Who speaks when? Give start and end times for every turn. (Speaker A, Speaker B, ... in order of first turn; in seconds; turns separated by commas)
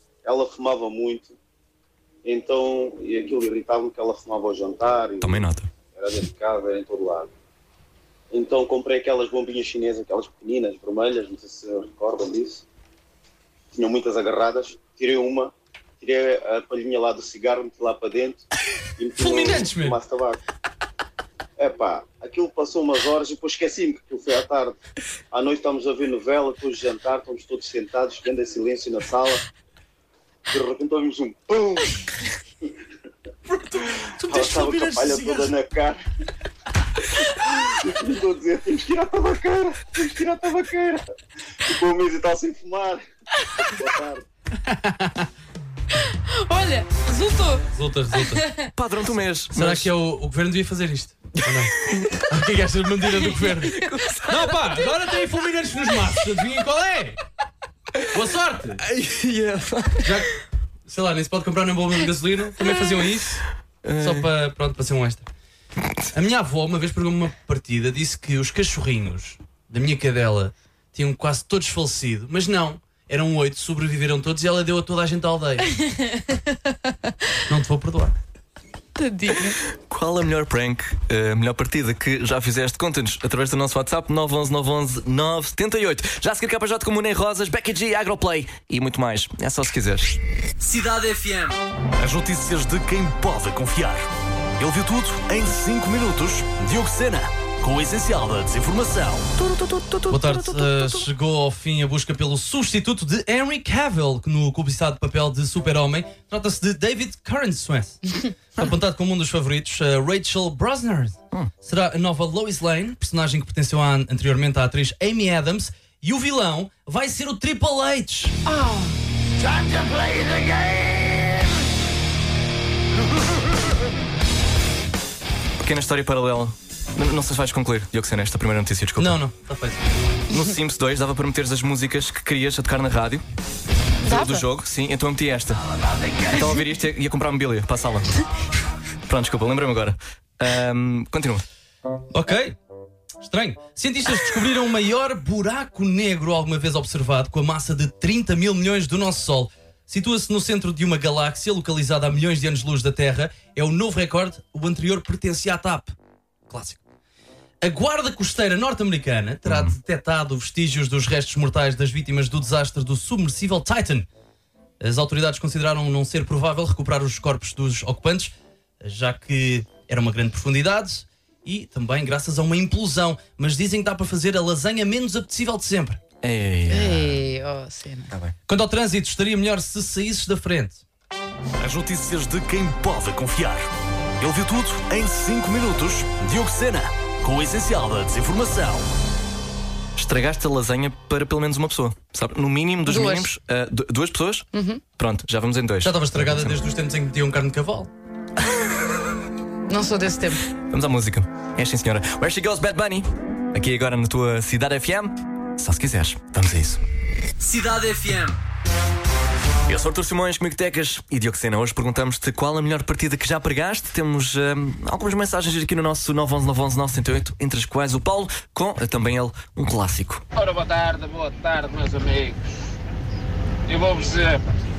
Speaker A: 0.2-1.4, Speaker A: 2.2-7.3, Speaker B: 5.2-5.7, Speaker A: 8.3-12.7, Speaker A: 13.7-18.4, Speaker A: 19.0-20.4, Speaker C: 19.2-20.0, Speaker A: 21.6-24.8, Speaker A: 25.3-29.4, Speaker A: 30.5-31.9, Speaker A: 34.2-36.0, Speaker C: 34.7-35.4, Speaker A: 37.3-41.0, Speaker A: 41.7-43.0, Speaker A: 43.8-44.2, Speaker C: 44.7-45.3, Speaker D: 46.3-48.7, Speaker C: 47.7-48.4, Speaker B: 48.7-49.9, Speaker C: 49.5-51.7, Speaker B: 51.5-52.2, Speaker C: 52.3-53.6, Speaker B: 53.2-54.8, Speaker C: 54.3-57.2, Speaker B: 57.9-58.2, Speaker C: 58.1-58.8, Speaker B: 58.8-60.3, Speaker C: 60.0-60.3, Speaker C: 60.9-63.4, Speaker B: 63.8-64.3, Speaker C: 64.0-65.3, Speaker C: 66.1-75.8, Speaker C: 77.5-78.2, Speaker D: 78.9-79.6, Speaker B: 79.9-90.2, Speaker E: 90.6-94.1, Speaker E: 94.6-99.3, Speaker B: 99.4-101.1, Speaker C: 100.1-118.3, Speaker D: 118.5-118.9, Speaker B: 125.6-129.2, Speaker C: 129.0-129.9, Speaker B: 130.3-133.2, Speaker D: 134.0-134.4, Speaker B: 134.0-135.6, Speaker B: 136.3-138.1, Speaker B: 139.1-141.4, Speaker C: 142.1-142.6, Speaker C: 143.2-155.9, Speaker C: 156.5-156.8, Speaker C: 157.6-164.1, Speaker B: 159.5-159.7, Speaker C: 164.8-176.0, Speaker B: 176.2-177.2, Speaker D: 176.7-178.1, Speaker C: 178.5-180.8, Speaker E: 181.6-188.9, Speaker B: 189.9-194.5, Speaker D: 192.8-193.3, Speaker D: 194.5-194.8, Speaker B: 195.0-196.6, Speaker C: 195.8-197.9, Speaker D: 199.7-200.4, Speaker B: 200.7-206.8, Speaker C: 207.4-208.4, Speaker B: 209.7-220.2, Speaker F: 220.3-222.5, Speaker F: 223.7-224.5